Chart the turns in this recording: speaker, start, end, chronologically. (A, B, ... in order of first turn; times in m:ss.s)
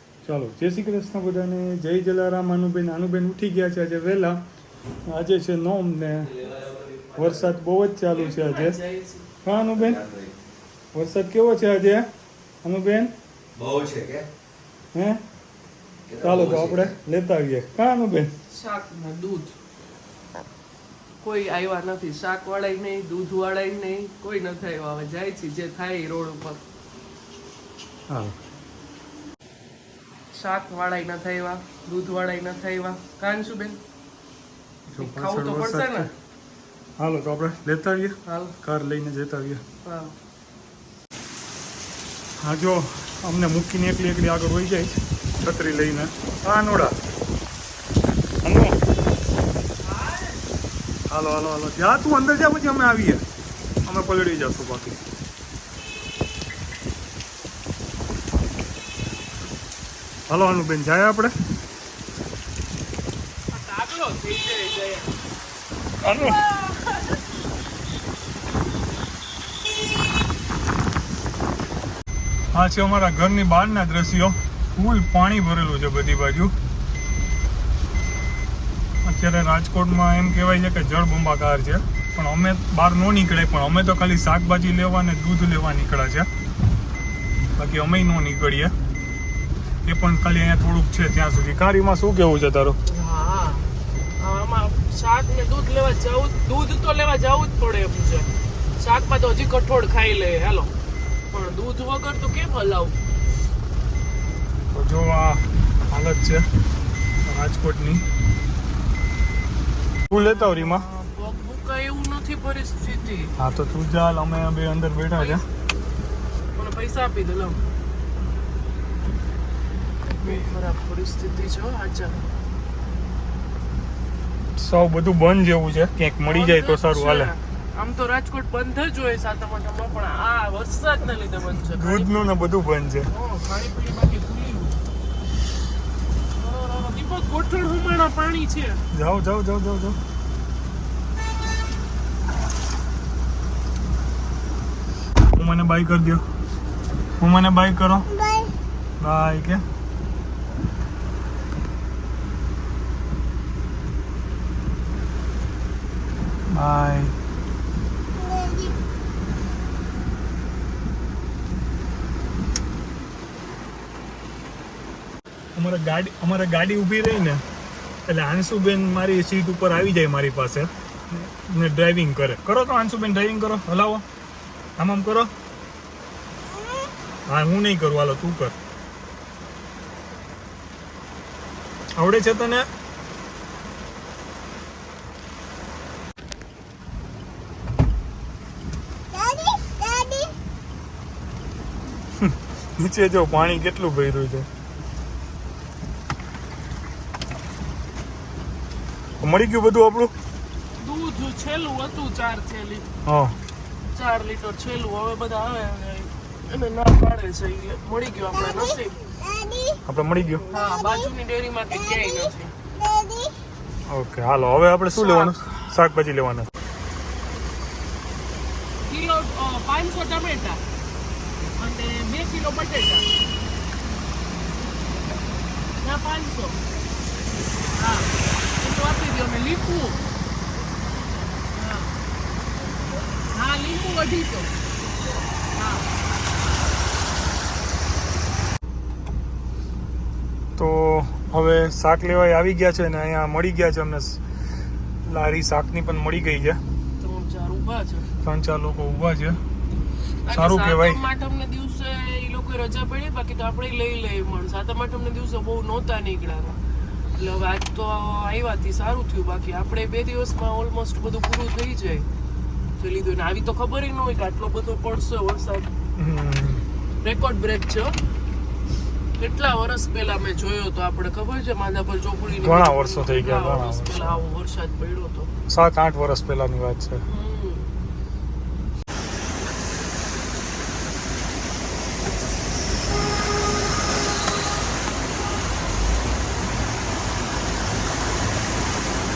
0:00.2-0:04.4 A
0:05.1-0:06.4 A
0:06.6-0:07.1 B
0:07.2-0:08.8 A
0:08.1-0:09.3 C
0:09.4-0:10.1 A
0:10.0-0:10.3 B
0:10.9-0:12.1 A
0:12.6-0:13.1 A
0:13.6-0:14.3 B
0:14.9-0:15.2 A
0:16.1-0:16.9 B
0:16.2-0:18.3 A
0:18.5-0:19.6 C
0:21.2-0:26.6 C
0:28.1-0:28.4 A
0:30.3-0:33.8 C
0:34.9-0:36.1 A
0:35.0-0:36.1 C
0:37.0-0:39.6 A
0:38.3-0:38.6 C
0:39.8-0:40.2 C
0:42.4-0:47.0 A
0:48.4-0:48.8 A
0:49.8-0:50.4 C
0:51.1-0:53.2 A
0:53.9-0:55.0 A
1:00.3-1:01.3 A
1:03.5-1:05.1 C
1:06.0-1:06.4 A
1:06.2-1:07.2 C
1:12.5-1:16.5 A
1:19.0-1:26.3 A
1:27.6-1:28.7 A
1:29.9-1:32.8 A
1:32.8-1:40.7 C
1:41.3-1:43.0 C
1:44.7-1:46.5 A
1:47.2-1:48.1 A
1:50.1-1:50.8 A
1:50.1-1:53.3 C
1:53.4-1:55.4 A
1:55.1-1:55.4 C
1:56.6-1:57.6 C
2:00.1-2:02.2 C
2:04.6-2:07.3 A
2:06.3-2:12.3 C
2:11.6-2:13.1 A
2:13.1-2:14.8 C
2:16.4-2:18.8 C
2:18.9-2:20.0 A
2:25.3-2:26.2 A
2:27.2-2:28.1 A
2:29.0-2:29.6 A
2:36.5-2:37.2 A
2:45.6-2:47.4 A
2:48.1-2:54.0 A
2:54.8-2:55.3 A
2:57.3-2:58.6 A
3:02.0-3:02.7 A
3:12.2-3:14.5 A
3:19.2-3:20.1 A
3:20.8-3:22.9 C
3:23.1-3:23.4 A
3:23.9-3:29.1 C
3:29.9-3:30.5 A
3:30.5-3:32.6 C
3:33.9-3:36.5 A
3:34.9-3:35.5 C
3:38.9-3:40.6 C
3:41.6-3:43.1 C
3:45.8-3:46.6 C
3:47.8-3:50.0 C
3:51.5-3:52.0 C
3:53.2-3:54.6 C
3:55.5-3:55.9 C
4:00.6-4:04.4 A
4:05.0-4:06.6 A
4:07.0-4:08.1 C
4:08.2-4:09.4 A
4:10.2-4:16.6 C
4:10.3-4:11.0 A
4:17.2-4:22.1 C
4:22.8-4:25.7 C
4:26.0-4:26.6 A
4:27.0-4:28.0 C
4:29.2-4:35.3 C
4:32.3-4:34.2 A
4:35.5-4:37.0 A
4:37.1-4:37.7 C